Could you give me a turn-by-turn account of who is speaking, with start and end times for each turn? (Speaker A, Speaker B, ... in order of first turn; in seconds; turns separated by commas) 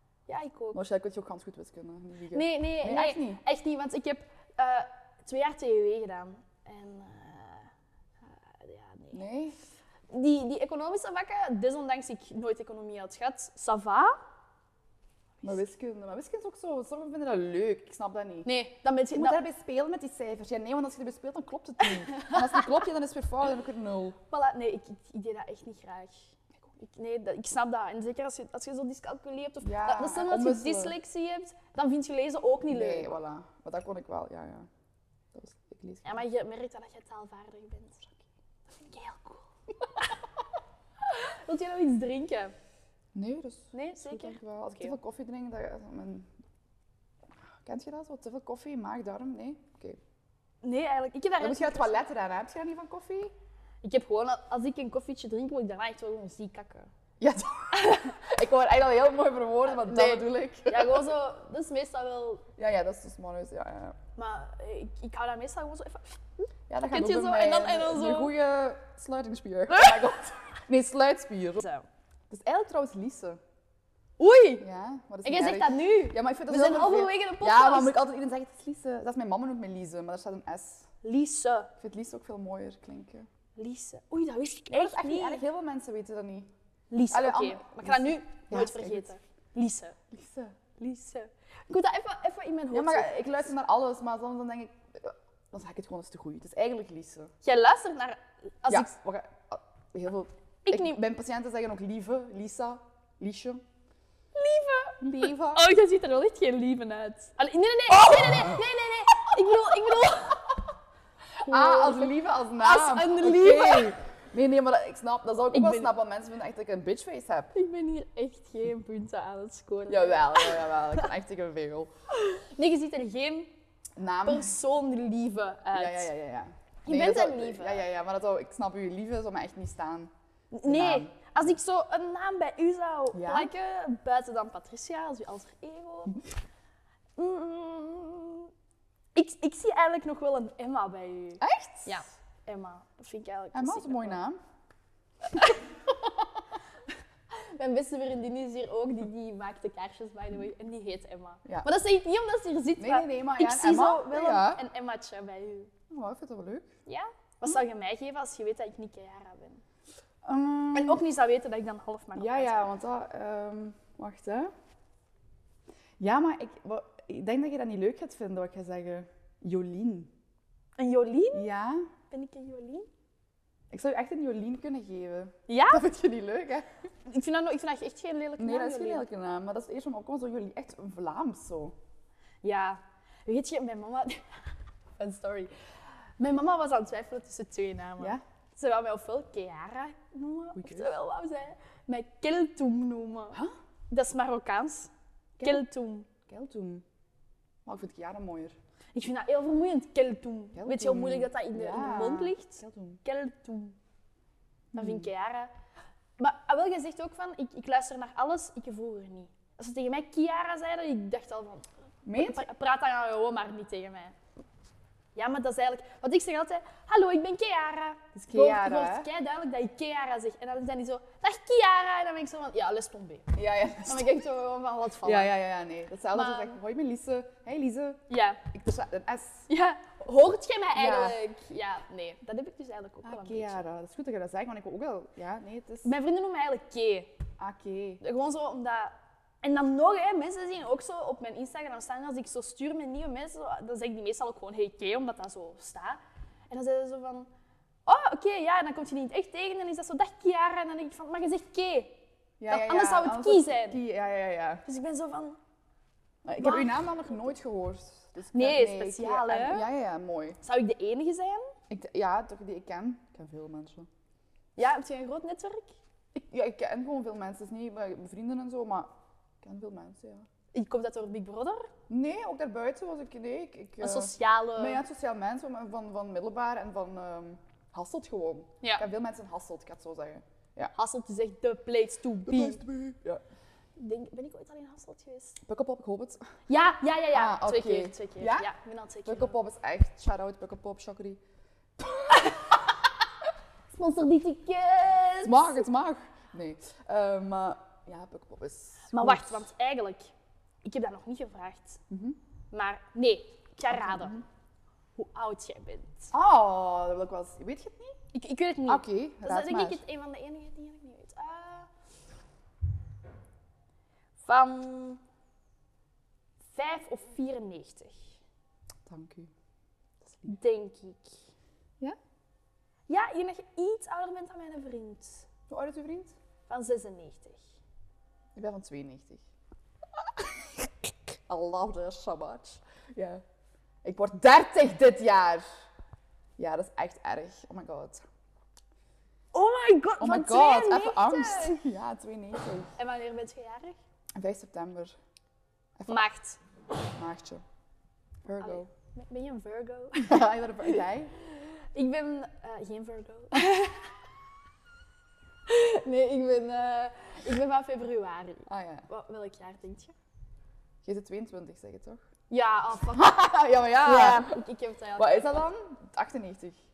Speaker A: 0.3-0.8, Speaker B: 0.7-3.4, Speaker A: 2.3-9.2, Speaker B: 9.1-9.6, Speaker A: 10.1-14.2, Speaker B: 15.4-18.5, Speaker A: 18.4-19.4, Speaker B: 19.1-24.2, Speaker A: 21.8-22.7, Speaker A: 24.3-26.3, Speaker A: 26.8-33.2, Speaker B: 29.6-30.9, Speaker B: 32.7-34.7, Speaker B: 35.3-36.2, Speaker A: 36.0-38.1, Speaker A: 38.7-40.1, Speaker A: 41.0-42.5, Speaker B: 43.1-46.3, Speaker A: 43.7-45.0, Speaker B: 47.6-50.0, Speaker A: 50.6-52.0, Speaker B: 51.4-53.3, Speaker A: 53.8-56.9, Speaker B: 57.2-61.1, Speaker A: 57.7-58.2, Speaker A: 59.6-62.4, Speaker B: 62.6-64.0, Speaker A: 64.2-68.3, Speaker B: 66.7-71.6, Speaker A: 69.7-70.1, Speaker A: 71.6-71.8, Speaker B: 72.3-73.4, Speaker A: 74.2-74.7, Speaker B: 74.6-80.9, Speaker A: 75.2-78.0, Speaker A: 81.0-81.7, Speaker B: 81.8-83.3, Speaker A: 83.5-85.4, Speaker B: 84.7-86.5, Speaker A: 86.9-90.0, Speaker B: 87.1-89.1, Speaker B: 90.1-90.6, Speaker A: 90.8-93.3, Speaker B: 92.7-97.3, Speaker A: 97.4-98.9, Speaker B: 98.7-103.6, Speaker A: 100.7-101.0, Speaker A: 104.3-110.6, Speaker B: 105.0-105.6, Speaker B: 111.4-117.5, Speaker A: 111.4-113.9, Speaker A: 115.5-115.9, Speaker A: 117.5-121.0, Speaker B: 119.9-121.9, Speaker A: 122.1-123.5, Speaker B: 124.0-124.5, Speaker A: 124.2-126.1, Speaker B: 125.7-130.1, Speaker A: 126.8-127.8, Speaker A: 130.5-136.2, Speaker B: 130.6-131.1, Speaker B: 133.1-133.5, Speaker A: 137.2-138.5, Speaker A: 139.1-144.2, Speaker B: 141.4-142.0, Speaker B: 143.5-144.4, Speaker A: 145.2-145.8, Speaker A: 147.3-155.7, Speaker B: 152.8-154.6, Speaker B: 155.9-156.7, Speaker A: 156.8-159.6, Speaker B: 160.2-161.0, Speaker A: 160.7-162.7, Speaker B: 162.2-164.5, Speaker B: 166.0-170.1, Speaker A: 170.8-171.4, Speaker B: 171.3-171.9, Speaker A: 172.1-172.9, Speaker B: 173.7-176.7, Speaker A: 175.5-175.8, Speaker A: 177.0-179.0, Speaker B: 178.4-181.7, Speaker A: 182.4-185.5, Speaker A: 186.2-193.4, Speaker B: 190.5-190.9, Speaker A: 193.9-194.9, Speaker B: 195.4-195.6, Speaker A: 195.4-196.1, Speaker B: 196.3-196.8, Speaker B: 197.7-198.5, Speaker A: 198.9-203.8, Speaker B: 200.6-203.0, Speaker B: 204.7-205.1, Speaker A: 204.7-205.5, Speaker A: 206.2-214.2, Speaker B: 212.0-212.4, Speaker A: 215.1-225.3, Speaker B: 218.1-219.1, Speaker B: 223.3-224.2, Speaker B: 225.0-229.5, Speaker A: 226.1-226.6, Speaker A: 228.1-228.4, Speaker A: 229.5-233.6, Speaker B: 230.7-231.2, Speaker B: 233.0-235.9, Speaker A: 235.8-237.1, Speaker B: 237.4-238.0, Speaker A: 238.0-247.3, Speaker A: 247.8-253.8, Speaker B: 252.4-254.6, Speaker A: 254.6-255.4, Speaker B: 256.2-260.4, Speaker A: 256.4-256.9, Speaker A: 258.3-259.6, Speaker A: 260.4-261.5, Speaker B: 261.7-263.9, Speaker A: 264.6-265.7, Speaker B: 266.1-268.9, Speaker B: 269.4-270.3, Speaker A: 270.5-271.7, Speaker B: 271.9-280.7, Speaker A: 273.8-274.8, Speaker A: 280.7-282.6, Speaker B: 282.2-283.2, Speaker A: 283.8-285.4, Speaker B: 285.4-286.3, Speaker A: 286.5-289.4, Speaker B: 287.1-288.5, Speaker B: 289.0-291.2, Speaker B: 291.8-292.6, Speaker A: 293.7-295.7, Speaker B: 295.2-299.5, Speaker A: 298.9-300.1, Speaker A: 300.6-301.8, Speaker B: 301.9-302.2, Speaker A: 302.5-304.1, Speaker B: 303.7-304.2, Speaker A: 304.9-306.1, Speaker B: 306.1-308.0, Speaker A: 308.1-311.7, Speaker B: 308.7-309.8, Speaker A: 314.2-315.0, Speaker A: 316.5-318.2, Speaker B: 318.9-319.3, Speaker A: 320.2-321.2, Speaker A: 322.9-325.2, Speaker B: 325.5-326.1, Speaker A: 326.5-327.4, Speaker B: 328.3-329.2, Speaker B: 330.2-330.5, Speaker B: 331.3-333.2, Speaker B: 333.8-335.4, Speaker B: 336.4-338.0, Speaker A: 339.3-341.6, Speaker B: 340.0-342.7, Speaker A: 342.8-343.8, Speaker B: 344.1-344.9, Speaker A: 345.9-346.4, Speaker B: 346.9-347.4, Speaker B: 348.2-348.7, Speaker A: 348.4-350.2, Speaker B: 349.9-351.1, Speaker A: 351.2-353.9, Speaker A: 355.4-359.9, Speaker B: 358.5-358.9, Speaker B: 360.8-362.0, Speaker A: 362.3-363.2, Speaker B: 362.9-364.4, Speaker A: 363.8-365.4, Speaker B: 365.0-366.6